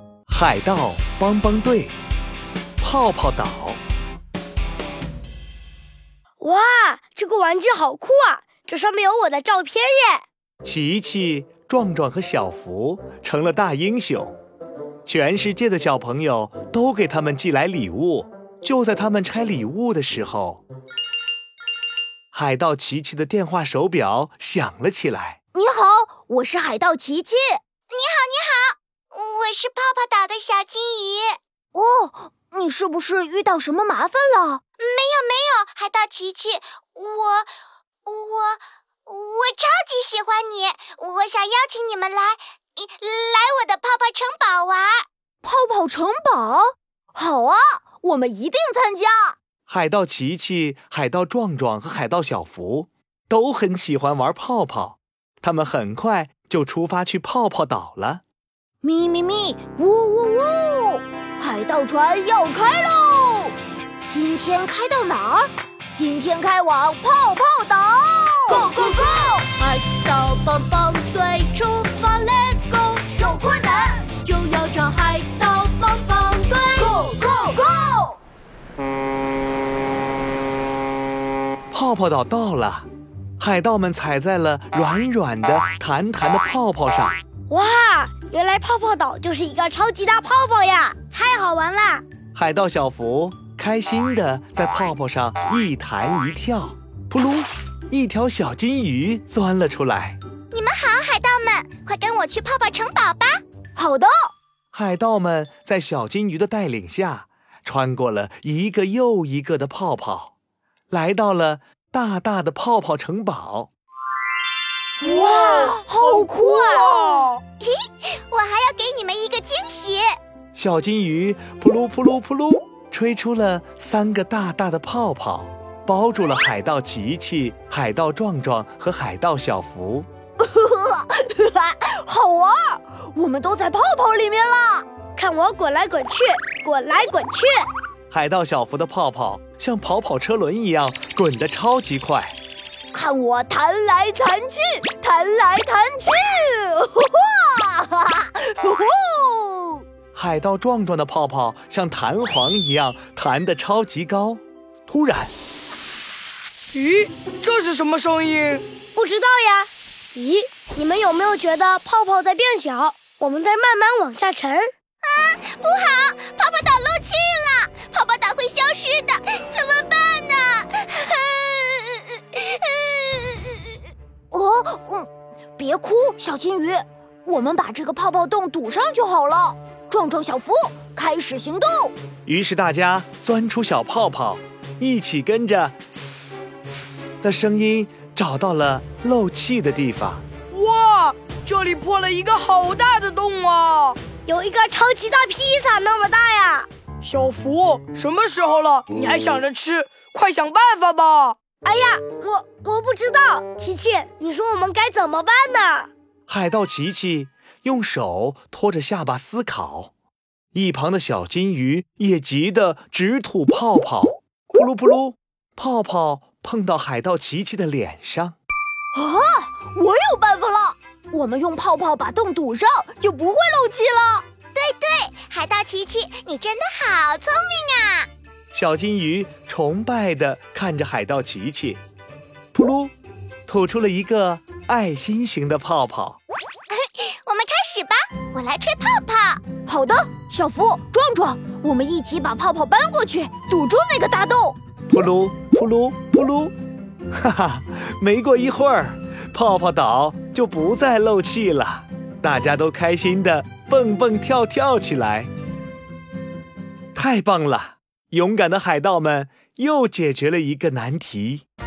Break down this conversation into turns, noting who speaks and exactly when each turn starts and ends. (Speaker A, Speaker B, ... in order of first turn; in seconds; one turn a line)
Speaker A: 0.3-1.9
Speaker A: 2.8-3.8
Speaker B: 6.4-10.2
Speaker A: 10.6-14.3
Speaker A: 15.0-20.6
Speaker A: 22.3-25.4
Speaker C: 25.5-27.6
Speaker D: 27.9-31.4
Speaker C: 31.7-34.6
Speaker D: 34.8-37.5
Speaker D: 38.0-45.0
Speaker C: 45.4-49.4
Speaker A: 49.7-58.2
Speaker C: 58.8-63.5
Speaker C: 64.0-78.2
Speaker A: 81.7-82.9
Speaker A: 83.4-87.2
Speaker B: 87.5-92.0
Speaker A: 92.3-100.2
Speaker D: 100.5-103.4
Speaker C: 103.8-104.3
Speaker A: 104.7-110.3
Speaker A: 110.9-113.7
Speaker C: 115.0-117.3
Speaker E: 116.1-116.6
Speaker D: 117.6-120.1
Speaker A: 120.5-130.1
Speaker C: 130.4-134.9
Speaker B: 135.2-137.7
Speaker A: 138.1-142.3
Speaker C: 142.9-149.8
Speaker A: 150.1-155.3
Speaker E: 156.7-158.6
Speaker B: 158.9-164.7
Speaker D: 165.0-173.6
Speaker C: 174.3-181.9
Speaker A: 182.2-190.2
Speaker E: 190.5-194.0
Speaker B: 194.2-196.7
Speaker E: 197.0-201.3
Speaker B: 201.6-205.9
Speaker A: 206.3-209.9
Speaker A: 210.5-218.4
Speaker C: 218.9-224.2
Speaker D: 224.5-228.1
Speaker A: 228.5-231.8
Speaker A: 232.5-232.9
Speaker A: 233.5-236.2
Speaker D: 236.7-239.4
Speaker C: 239.7-244.6
Speaker A: 244.9-246.5
Speaker A: 247.1-255.3
Speaker A: 256.9-261.4